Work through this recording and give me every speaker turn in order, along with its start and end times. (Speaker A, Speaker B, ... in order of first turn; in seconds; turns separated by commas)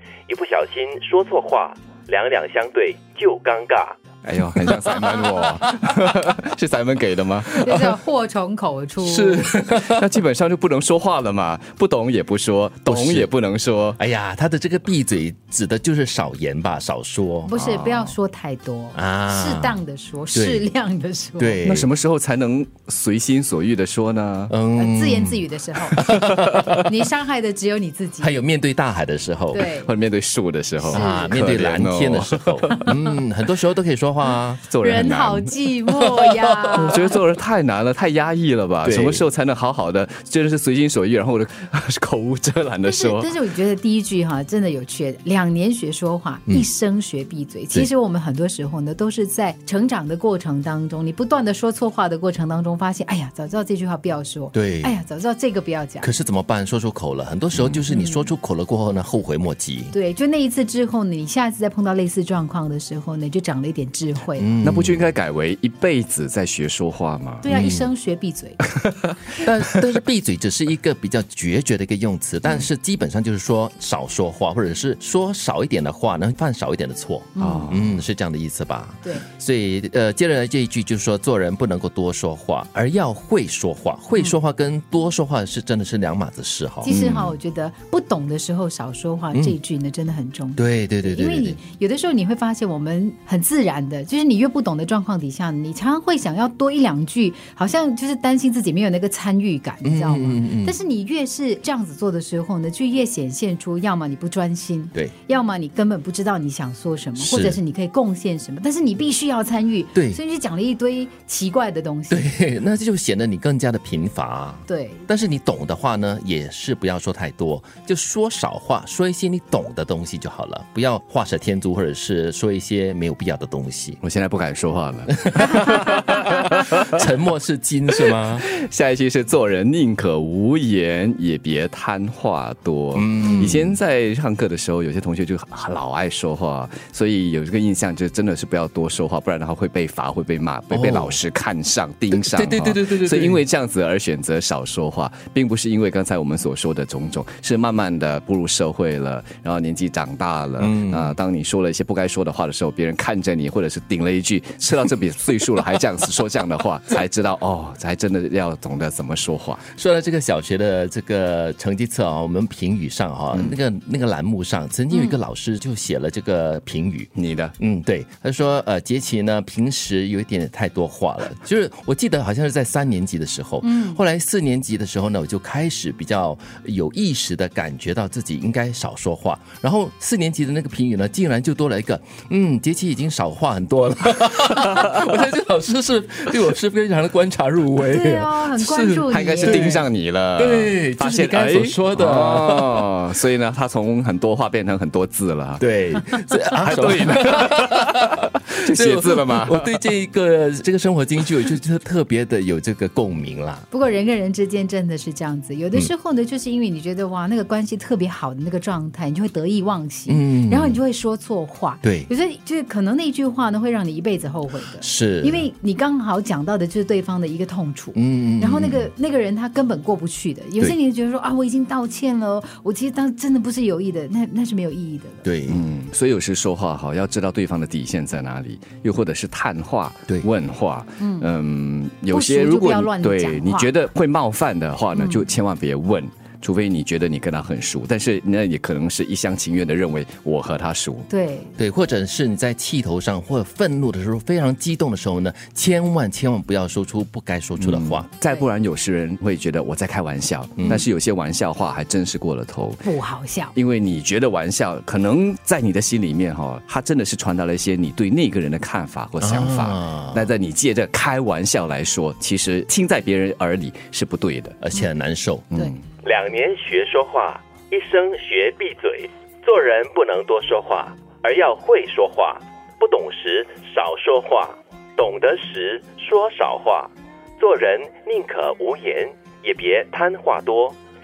Speaker A: 0.3-4.0, Speaker B: 4.2-8.0, Speaker C: 4.7-5.5, Speaker D: 7.5-9.5, Speaker B: 9.0-14.0, Speaker C: 9.7-10.0, Speaker C: 12.9-13.3, Speaker C: 14.0-17.5, Speaker D: 17.4-21.6, Speaker B: 17.5-18.1, Speaker C: 18.9-19.8, Speaker C: 20.3-20.7, Speaker C: 21.4-21.9, Speaker B: 21.6-24.5, Speaker C: 24.5-26.9, Speaker D: 24.7-26.0, Speaker B: 26.0-26.5, Speaker D: 26.8-28.4, Speaker C: 28.2-29.7, Speaker D: 29.5-29.9, Speaker B: 29.7-32.7, Speaker C: 30.9-34.6, Speaker D: 30.9-31.5, Speaker B: 34.6-35.6, Speaker D: 34.8-37.2, Speaker C: 36.1-36.5, Speaker B: 36.7-43.4, Speaker C: 38.8-39.2, Speaker D: 42.8-56.1, Speaker C: 54.5-55.0, Speaker C: 56.0-59.9, Speaker D: 57.9-58.3, Speaker D: 59.9-64.5, Speaker C: 64.3-65.1, Speaker B: 64.6-67.5, Speaker D: 67.4-68.6, Speaker C: 67.5-67.9, Speaker B: 68.7-69.4, Speaker C: 69.3-87.4, Speaker D: 77.4-77.8, Speaker B: 77.4-77.9, Speaker D: 86.8-112.3, Speaker C: 90.6-91.6, Speaker C: 99.8-100.8, Speaker C: 107.2-107.6, Speaker C: 110.0-110.2, Speaker C: 112.1-124.0, Speaker D: 114.7-115.1, Speaker B: 124.0-126.9, Speaker C: 125.3-128.5, Speaker B: 128.4-159.6, Speaker C: 132.9-133.8, Speaker C: 140.7-141.2, Speaker C: 142.1-143.4, Speaker C: 150.6-151.2, Speaker C: 159.6-189.8, Speaker B: 167.2-167.5, Speaker D: 173.6-174.0, Speaker D: 187.8-189.8, Speaker B: 189.1-195.7, Speaker C: 190.4-192.9, Speaker C: 195.6-198.2, Speaker B: 196.5-199.7, Speaker C: 198.7-203.7, Speaker D: 203.7-225.3, Speaker C: 210.1-210.8, Speaker C: 211.8-212.1, Speaker C: 214.8-215.5, Speaker C: 217.9-218.9, Speaker C: 225.2-225.6, Speaker B: 225.5-241.1, Speaker D: 231.0-231.3, Speaker D: 232.1-233.7, Speaker D: 234.9-235.2, Speaker D: 241.1-241.5, Speaker C: 241.6-248.1, Speaker B: 247.6-252.9, Speaker D: 252.8-253.5, Speaker B: 253.6-264.6, Speaker C: 259.2-260.2, Speaker C: 264.6-265.5, Speaker B: 265.5-265.8, Speaker A: 266.0-280.8